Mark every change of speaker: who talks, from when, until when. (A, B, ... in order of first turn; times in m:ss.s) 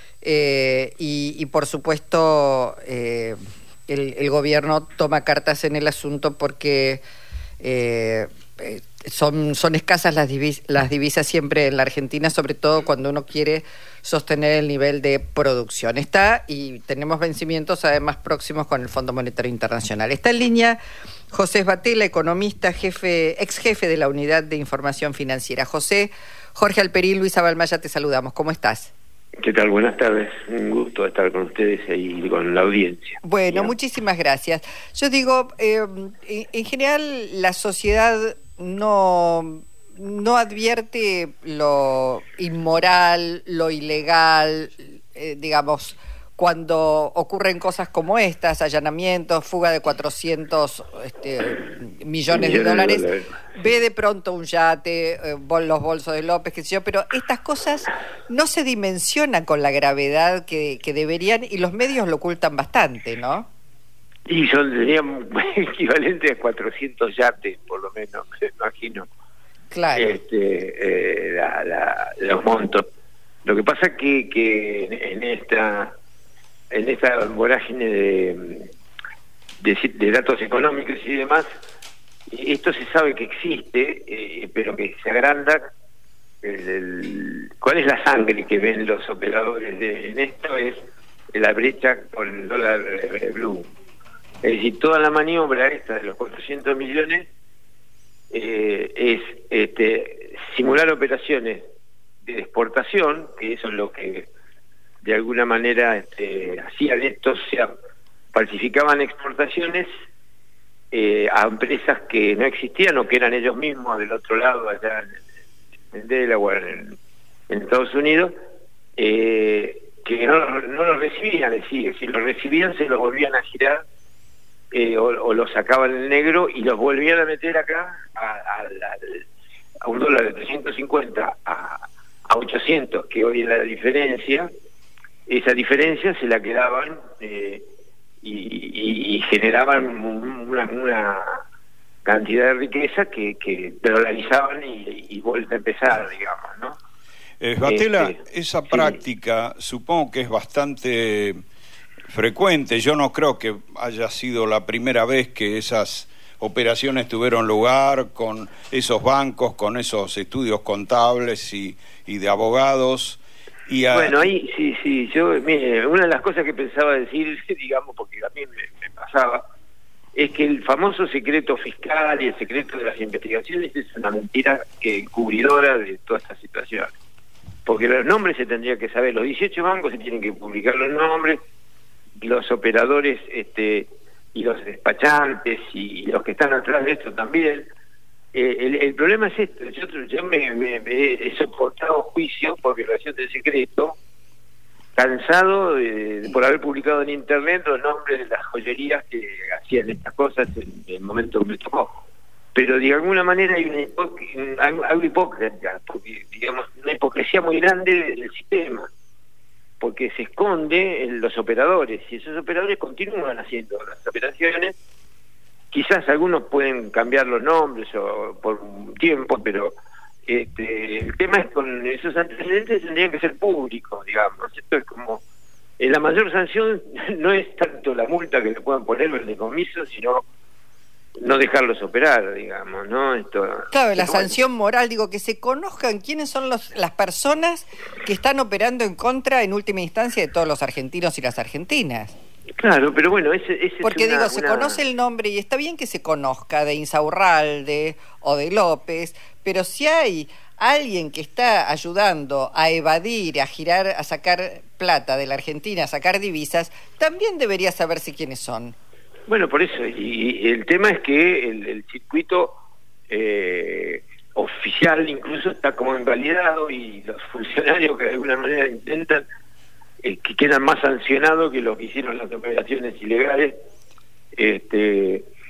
0:00.2-0:07.0 A
0:07.6-0:20.8 A
0:21.3-0:28.9 A
0:29.4-0:33.7 B
0:33.2-0:53.0 A
0:52.3-0:53.3 B
0:53.5-1:03.5 A
1:04.3-1:09.1 B
1:09.7-1:10.1 A
1:09.9-1:12.8 B
1:13.4-1:15.9 B
1:16.7-1:18.7 B
1:19.6-1:21.4 B
1:22.3-1:25.6 B
1:26.4-1:30.8 B
1:31.3-1:33.7 B
1:34.4-1:37.3 B
1:38.3-1:41.6 B
1:42.2-1:44.3 B
1:45.0-1:47.7 B
1:48.3-1:49.9 B
1:50.9-1:55.2 B
1:55.9-1:57.0 B
1:57.5-1:58.3 B
1:59.0-2:03.8 B
2:04.7-2:09.2 B
2:09.8-2:14.5 B
2:15.3-2:17.6 B
2:18.2-2:21.4 B
2:22.0-2:26.8 B
2:27.4-2:31.4 C
2:27.6-2:28.2 B
2:28.7-2:29.0 B
2:32.1-2:44.3 C
2:43.9-2:49.4 B
2:50.1-2:56.9 B
2:57.6-3:01.4 B
3:02.2-3:07.7 B
3:08.3-3:14.0 B
3:15.0-3:22.0 B
3:22.5-3:28.9 B
3:29.8-3:34.8 B
3:35.7-3:39.8 B
3:40.3-3:45.2 B
3:45.8-3:50.2 B
3:51.2-3:54.3 B
3:53.7-4:02.1 A
4:02.6-4:04.8 B
4:03.8-4:18.8 A
4:19.3-4:22.6 B
4:23.1-4:29.2 B
4:30.0-4:33.6 B
4:34.4-4:35.3 B